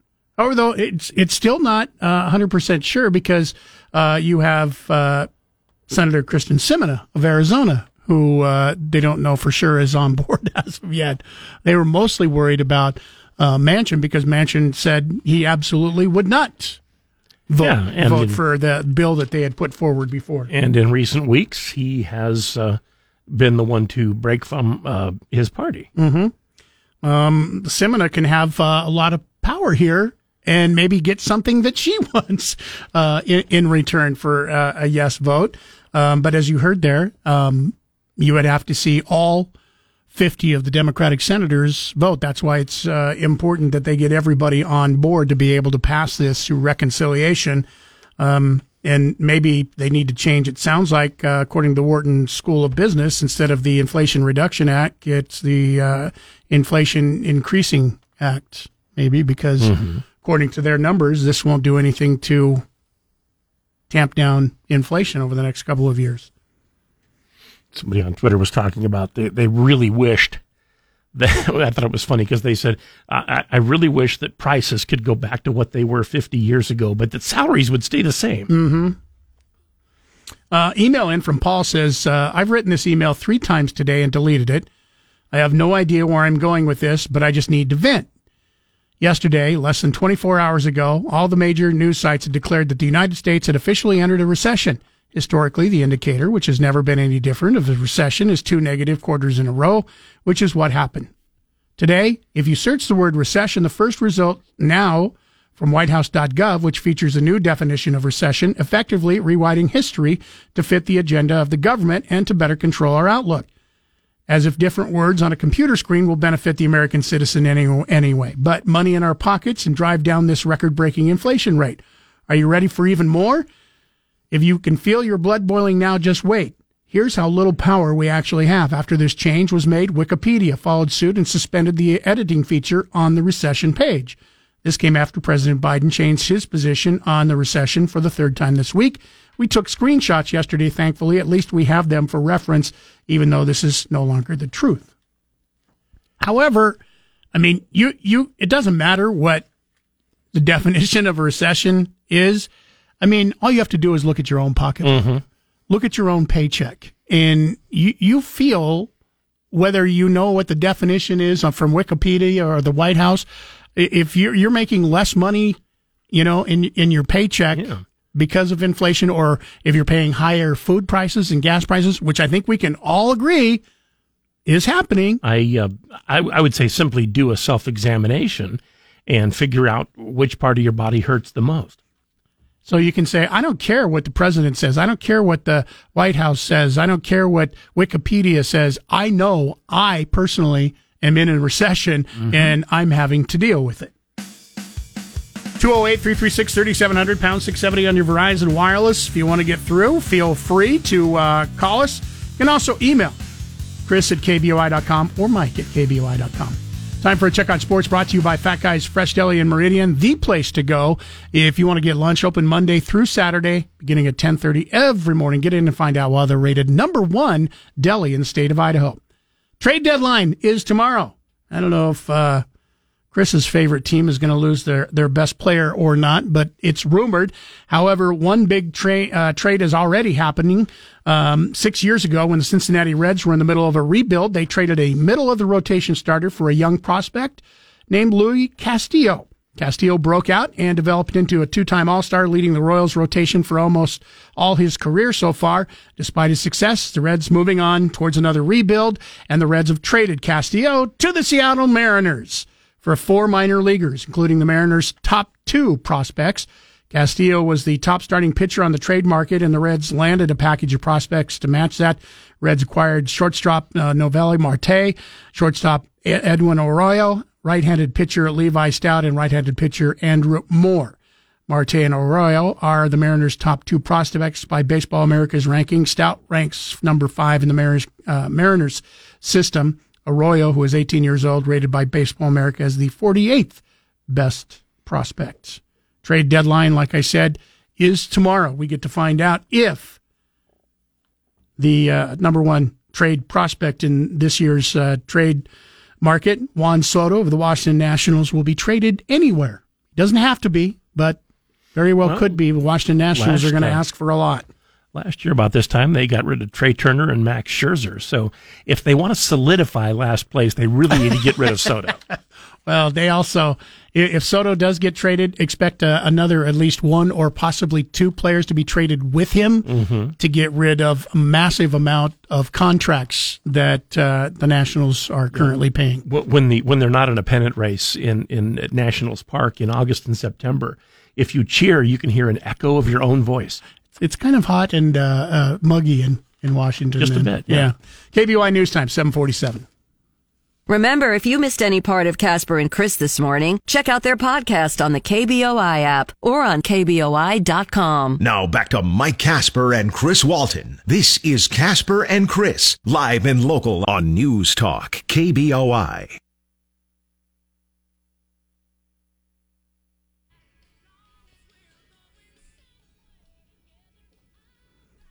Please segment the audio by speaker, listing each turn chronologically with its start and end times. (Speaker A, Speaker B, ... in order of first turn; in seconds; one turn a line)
Speaker A: 0.4-5.3
Speaker A: 5.9-16.8
Speaker A: 17.5-20.5
Speaker B: 17.6-18.4
Speaker B: 20.5-25.9
Speaker A: 26.0-26.3
Speaker A: 27.0-39.5
Speaker A: 40.1-47.6
Speaker A: 48.2-62.6
Speaker B: 59.6-60.0
Speaker A: 63.9-66.3
Speaker B: 67.7-70.4
Speaker B: 71.1-78.5
Speaker A: 78.5-79.0
Speaker A: 80.5-84.7
Speaker A: 85.3-88.1
Speaker A: 89.0-101.1
Speaker A: 101.8-113.5
Speaker A: 114.3-123.5
Speaker A: 124.3-144.9
Speaker A: 146.2-146.8
Speaker A: 147.3-149.5
Speaker A: 150.3-152.5
Speaker A: 153.0-155.0
Speaker B: 154.8-155.2
Speaker A: 155.7-158.9
Speaker A: 159.5-163.2
Speaker A: 163.8-165.6
Speaker A: 166.1-173.6
Speaker B: 167.6-167.8
Speaker A: 174.5-175.2
Speaker B: 175.2-181.8
Speaker A: 182.7-193.9
Speaker A: 195.6-203.2
Speaker A: 203.8-219.0
Speaker A: 219.6-222.4
Speaker A: 223.1-270.9
Speaker A: 271.5-290.0
Speaker A: 291.6-295.5
Speaker A: 296.0-301.2
Speaker A: 301.8-304.5
Speaker B: 302.0-302.4
Speaker B: 303.1-303.8
Speaker B: 304.9-312.0
Speaker A: 312.7-319.7
Speaker B: 319.7-320.1
Speaker A: 320.2-326.0
Speaker B: 326.1-333.6
Speaker A: 334.0-339.6
Speaker B: 337.0-337.7
Speaker C: 340.7-348.2
Speaker D: 348.2-356.1